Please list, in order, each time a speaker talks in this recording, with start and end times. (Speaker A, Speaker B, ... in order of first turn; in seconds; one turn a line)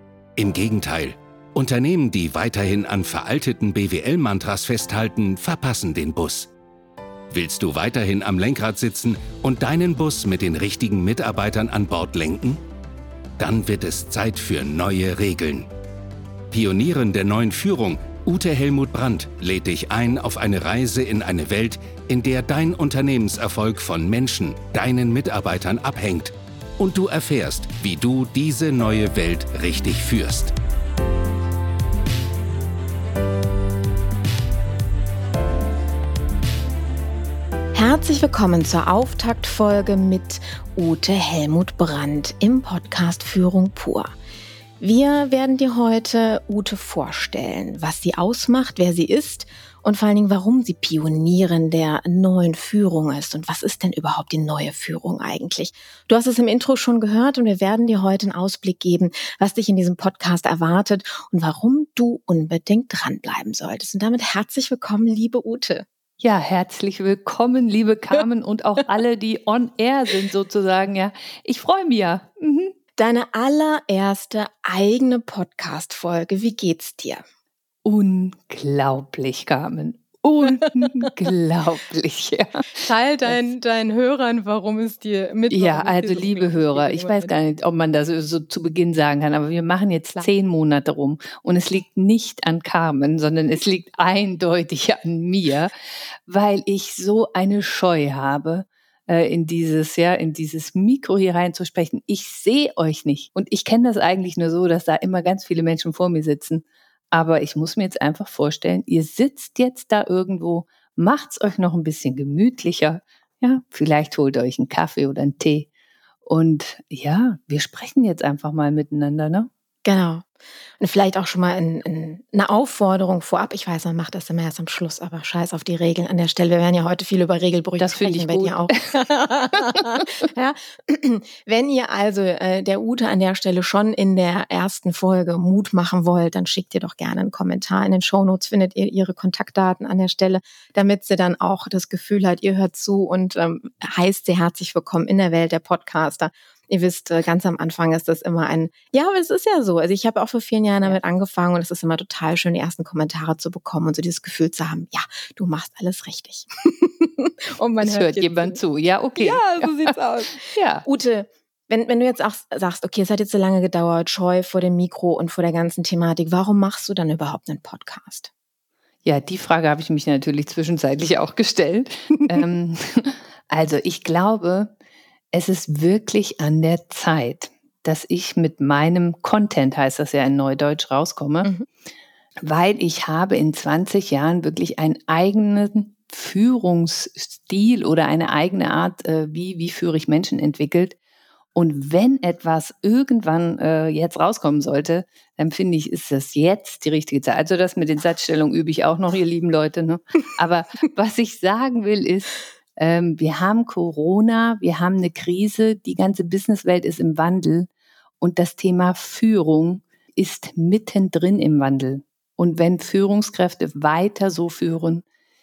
Speaker A: 0.4-6.5
Speaker A: 7.3-12.6
Speaker A: 13.4-15.7
Speaker A: 16.5-30.5
Speaker B: 37.7-44.1
Speaker B: 44.8-65.8
Speaker C: 66.2-72.7
Speaker B: 73.0-77.2
Speaker C: 77.8-83.4
Speaker B: 82.7-87.3
Speaker C: 85.5-95.7
Speaker C: 96.3-115.7
Speaker C: 116.2-119.5
Speaker B: 119.8-120.3
Speaker B: 120.8-158.6
Speaker C: 127.8-129.0
Speaker C: 129.7-130.0
Speaker C: 157.8-160.8
Speaker B: 159.2-168.3
Speaker C: 169.0-174.7
Speaker C: 175.3-181.5
Speaker C: 182.4-191.0
Speaker C: 191.5-207.7
Speaker C: 208.2-215.0